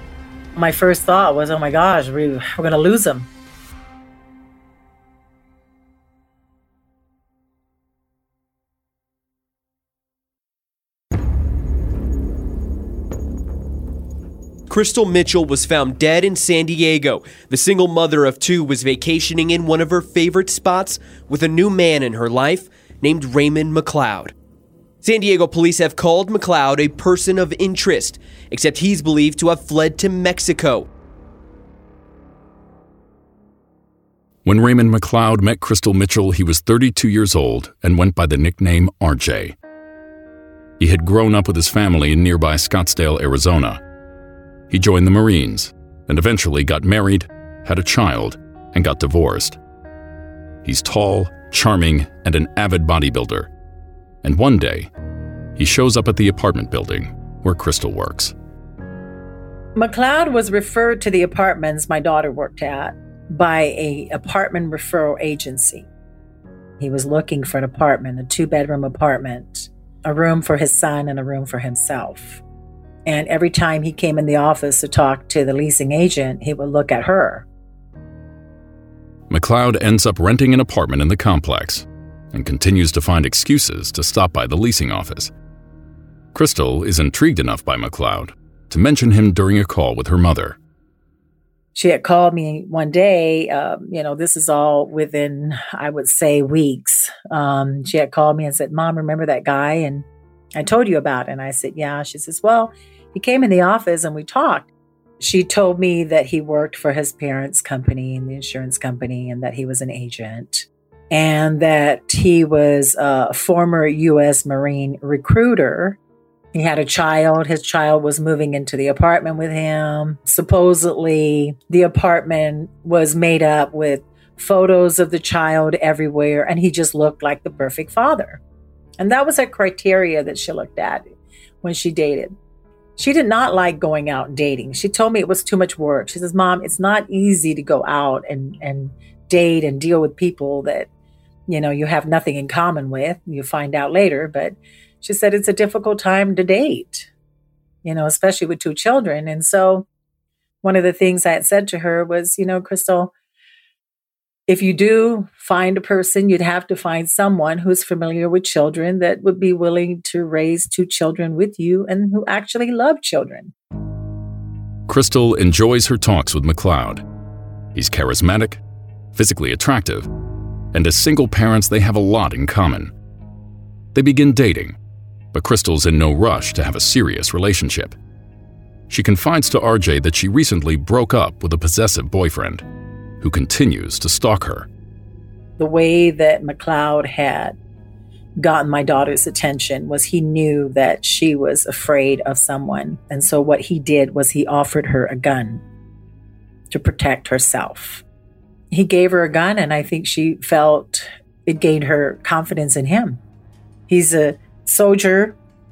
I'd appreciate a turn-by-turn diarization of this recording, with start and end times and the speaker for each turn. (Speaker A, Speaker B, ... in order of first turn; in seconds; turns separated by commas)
Speaker A: 0.5-3.3, Speaker B: 14.7-24.3, Speaker B: 25.0-30.9, Speaker C: 34.4-39.5, Speaker C: 40.8-43.8, Speaker C: 44.7-49.6, Speaker C: 50.6-53.5, Speaker C: 54.2-54.9, Speaker C: 55.5-58.3, Speaker A: 59.8-65.9, Speaker A: 66.8-72.4, Speaker A: 73.0-77.5, Speaker C: 79.3-85.3, Speaker C: 86.3-90.6, Speaker A: 91.7-104.7, Speaker A: 105.2-116.0, Speaker A: 116.5-128.4, Speaker A: 129.0-131.0, Speaker A: 131.6-132.3, Speaker A: 133.0-140.9, Speaker A: 141.5-147.1, Speaker A: 147.8-149.9, Speaker A: 150.6-153.1, Speaker A: 154.5-163.5, Speaker C: 164.9-167.0, Speaker C: 167.7-168.6, Speaker C: 169.1-170.1, Speaker C: 170.7-172.9, Speaker C: 173.9-174.8, Speaker C: 175.3-177.9, Speaker C: 178.9-182.6, Speaker C: 183.2-184.7, Speaker A: 185.6-187.6, Speaker A: 188.4-195.6, Speaker A: 196.7-198.0, Speaker A: 198.7-203.2, Speaker A: 203.9-205.4